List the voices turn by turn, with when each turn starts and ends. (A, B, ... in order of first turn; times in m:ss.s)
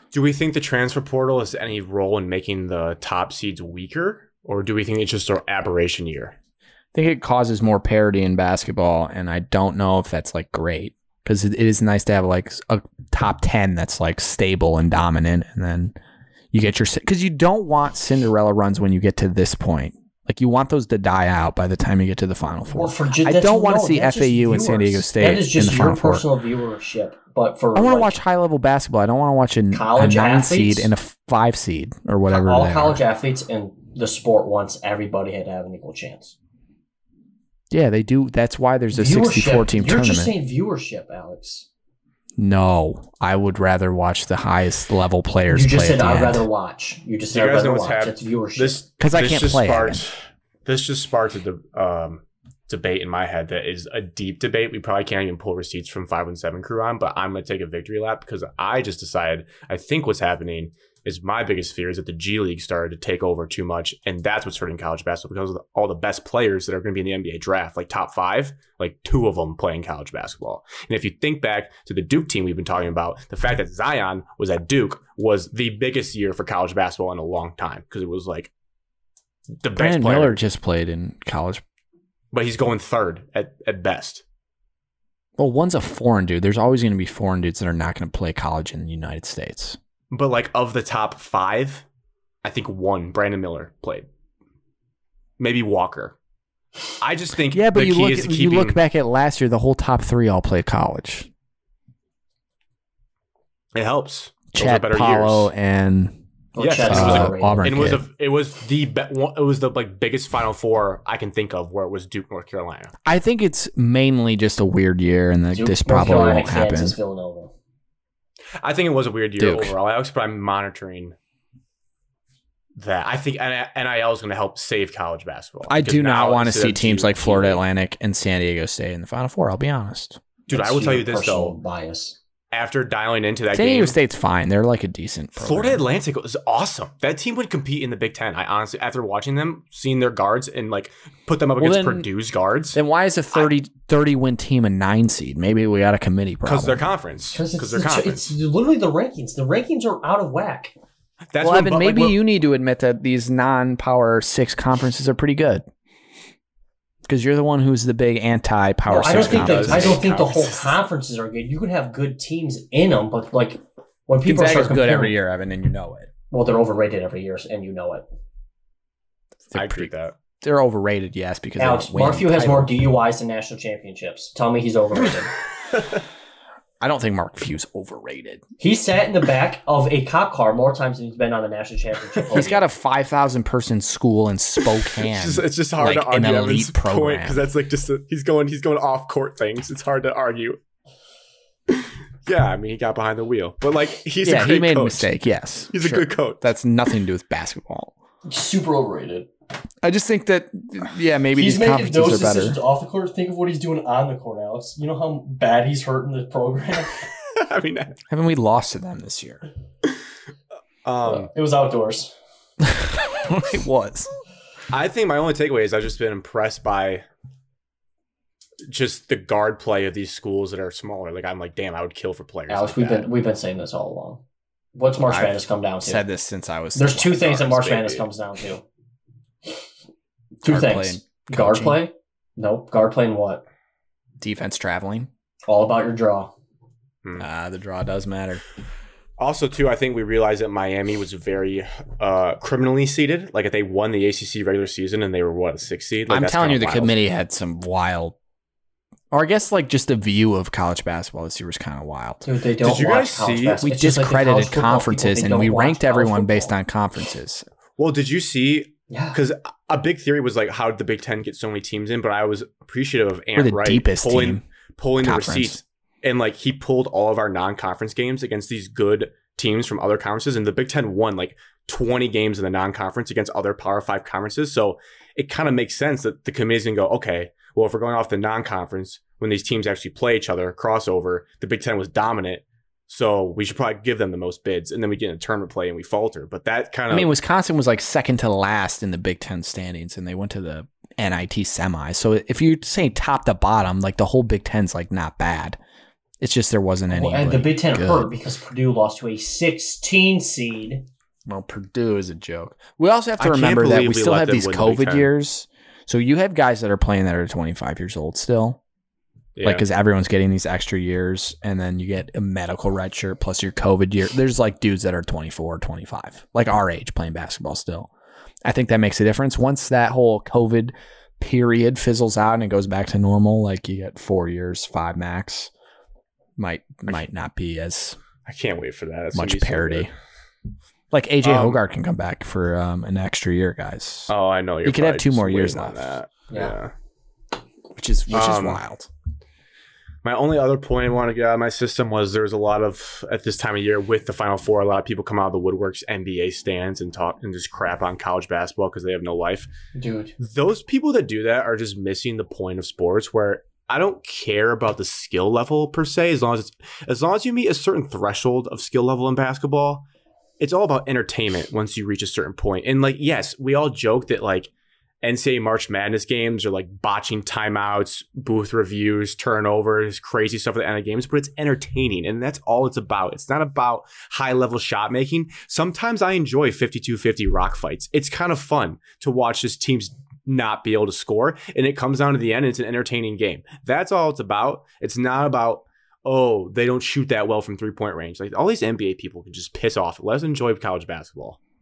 0:00.1-0:06.3 A
0:06.9-0:16.0 B
0:16.5-0:26.2 B
0:22.7-0:28.1 C
0:27.7-0:33.0 B
0:29.7-0:30.9 C
0:32.3-0:36.3 C
0:37.7-0:40.3 B
0:38.9-0:41.7 C
0:42.4-0:46.4 B
0:45.5-0:48.8 C
0:47.3-1:18.5 A
0:49.0-0:50.0 B
1:19.6-1:20.4 A
1:19.7-1:21.6 B
1:22.3-1:24.2 A
1:25.4-1:29.8 B
1:30.1-1:31.8 A
1:32.4-1:34.1 A
1:35.4-1:36.1 A
1:37.0-1:38.8 A
1:37.5-1:41.3 B
1:43.7-1:45.5 A
1:44.5-1:46.2 B
1:46.5-1:47.8 C
1:46.6-1:52.9 A
1:46.8-1:48.0 B
1:53.0-1:57.0 B
1:55.5-1:57.5 C
1:58.6-2:01.1 A
1:59.4-1:59.7 B
2:02.8-2:07.6 A
2:05.7-2:10.2 B
2:10.5-2:11.6 A
2:10.5-2:12.2 C
2:12.5-2:14.0 A
2:13.5-2:15.8 B
2:15.4-2:22.8 A
2:21.6-2:22.1 B
2:22.7-2:26.8 B
2:26.4-2:28.3 A
2:27.3-2:30.7 C
2:31.3-2:32.2 A
2:31.4-2:35.6 B
2:37.0-2:40.0 B
2:38.9-2:45.2 C
2:39.0-2:40.8 A
2:44.2-2:46.1 B
2:46.3-2:48.1 C
2:49.5-2:52.7 B
2:49.5-2:50.1 A
2:51.6-2:55.3 C
2:55.7-2:56.0 A
2:56.8-2:58.4 B
2:58.6-3:02.6 C
3:02.3-3:07.4 B
3:04.9-3:10.6 A
3:11.7-3:15.1 A
3:14.2-3:17.9 B
3:15.7-3:16.4 A
3:18.2-3:19.3 C
3:19.8-3:22.6 B
3:21.3-3:27.0 C
3:27.2-3:28.0 A
3:28.1-3:29.4 B
3:30.8-3:31.3 A
3:31.0-3:32.1 C
3:32.6-3:34.1 B
3:34.7-3:37.0 A
3:38.7-3:43.1 A
3:42.5-3:44.2 C
3:44.7-3:46.0 C
3:45.1-3:47.4 B
3:46.7-3:48.6 C
3:47.2-3:48.1 A
3:50.4-3:53.4 C
3:50.4-3:51.8 B
3:54.2-3:55.1 B
3:55.5-3:56.3 C
3:57.2-3:58.4 B
3:59.2-4:07.0 A
4:06.1-4:08.2 B
4:09.1-4:12.2 B
4:12.2-4:16.5 C
4:12.6-4:13.6 A
4:13.6-4:17.4 B
4:17.8-4:47.1 A
4:18.9-4:19.2 C
4:23.4-4:24.4 B
4:25.0-4:25.6 B
4:46.9-4:55.6 B
4:56.2-4:58.1 B
4:56.9-5:00.8 C
5:01.2-5:08.6 B
5:03.2-5:05.1 A
5:09.4-5:09.6 A
5:09.4-5:17.9 B
5:18.4-5:25.5 B
5:26.4-5:28.0 B
5:28.2-5:29.9 A
5:29.1-5:29.9 B
5:30.9-5:34.1 B
5:31.2-5:31.6 A
5:34.1-5:36.7 A
5:34.6-5:35.9 B
5:37.7-5:38.9 B
5:38.1-5:38.6 A
5:40.0-5:49.5 A
5:49.7-5:50.1 C
5:50.2-5:59.8 A
6:00.4-6:04.5 A
6:05.0-6:31.4 A